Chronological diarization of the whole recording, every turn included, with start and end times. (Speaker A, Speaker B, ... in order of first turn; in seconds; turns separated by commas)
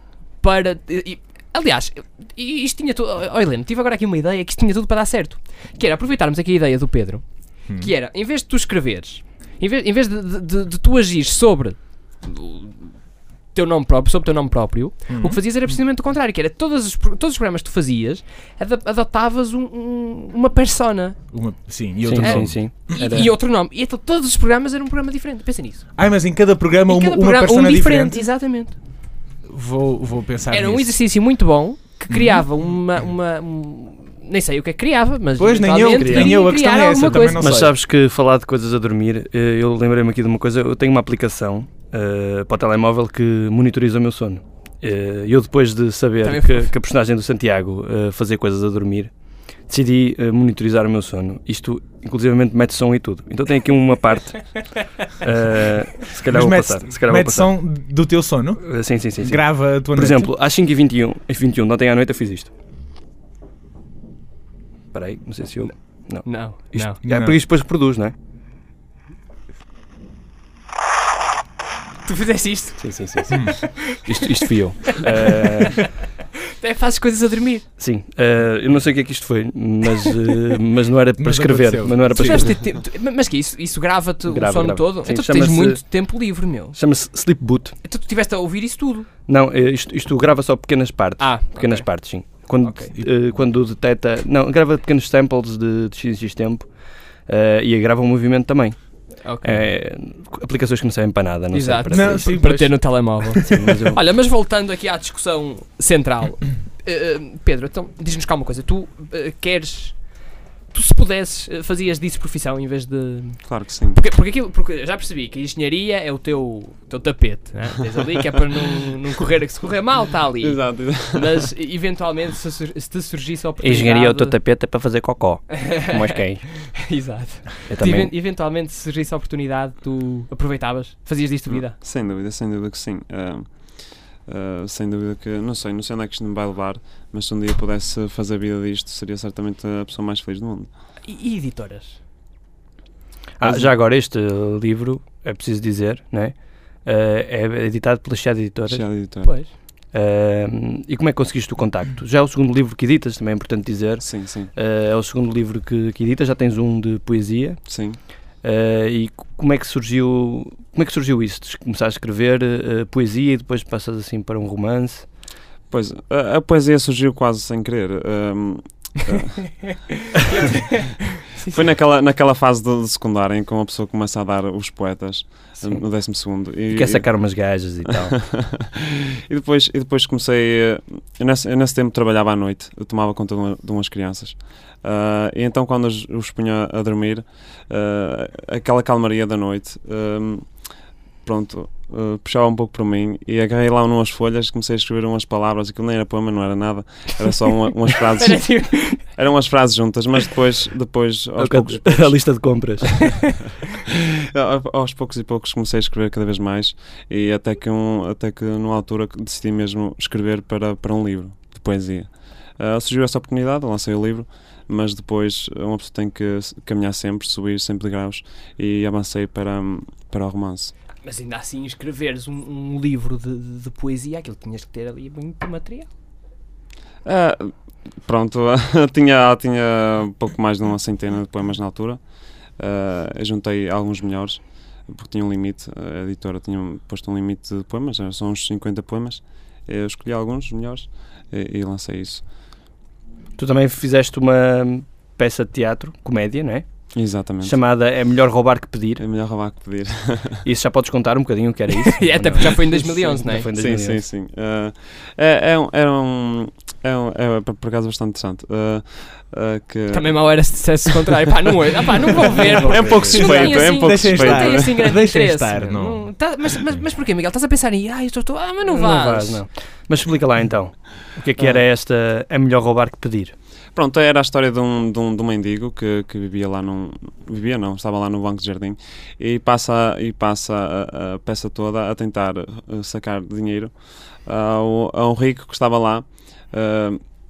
Speaker A: 0.4-7.2, Speaker A: 7.8-12.8, Speaker A: 13.5-21.2, Speaker B: 15.1-15.4, Speaker B: 21.3-23.2, Speaker C: 22.0-23.3, Speaker A: 22.2-25.9, Speaker B: 25.9-28.2, Speaker A: 26.9-28.8, Speaker B: 29.5-30.9, Speaker A: 30.5-37.5, Speaker B: 32.1-32.5, Speaker B: 35.4-37.8, Speaker C: 36.0-36.4, Speaker C: 37.2-49.1, Speaker A: 46.2-46.7, Speaker C: 49.7-57.5, Speaker B: 56.2-58.6, Speaker C: 58.6-62.5, Speaker B: 59.2-60.3, Speaker C: 64.9-68.1, Speaker A: 66.2-67.0, Speaker B: 67.0-67.4, Speaker A: 72.0-75.9, Speaker C: 72.8-75.9, Speaker B: 73.3-73.6, Speaker A: 76.6-77.7, Speaker C: 77.8-82.6, Speaker B: 81.2-82.6, Speaker A: 82.1-86.8, Speaker C: 84.2-85.8, Speaker C: 86.7-87.8, Speaker A: 87.8-89.1, Speaker C: 89.3-96.7, Speaker A: 91.2-91.9, Speaker A: 92.6-92.9, Speaker C: 97.3-98.8, Speaker A: 99.2-99.6, Speaker C: 99.4-102.5, Speaker A: 101.5-110.0, Speaker B: 101.9-103.3, Speaker C: 103.4-104.0, Speaker A: 110.7-124.3, Speaker D: 113.4-114.0, Speaker D: 120.4-121.5, Speaker C: 123.6-126.4, Speaker A: 125.5-126.2, Speaker A: 126.7-131.8, Speaker C: 127.7-128.1, Speaker D: 131.5-140.7, Speaker A: 141.0-142.0, Speaker C: 143.4-148.8, Speaker D: 143.4-143.7, Speaker D: 148.7-149.3, Speaker A: 149.2-149.5, Speaker C: 149.9-157.7, Speaker D: 154.0-154.5, Speaker D: 157.7-158.0, Speaker C: 158.4-165.1, Speaker D: 165.7-169.4, Speaker A: 170.1-171.6, Speaker D: 171.5-177.1, Speaker C: 176.7-178.2, Speaker D: 177.9-190.4, Speaker D: 191.2-202.2, Speaker A: 198.2-199.0, Speaker C: 201.4-203.3, Speaker D: 204.3-220.7, Speaker A: 221.0-225.9, Speaker D: 227.0-227.5, Speaker D: 228.0-232.0, Speaker D: 232.6-242.2, Speaker C: 243.4-246.7, Speaker D: 246.9-247.6, Speaker C: 247.4-249.0, Speaker D: 249.0-250.4, Speaker C: 250.4-254.0, Speaker A: 251.7-253.5, Speaker D: 253.6-260.2, Speaker A: 259.9-269.4, Speaker D: 262.4-264.8, Speaker B: 262.7-266.1, Speaker C: 268.6-273.3, Speaker D: 273.7-283.7, Speaker D: 284.2-287.0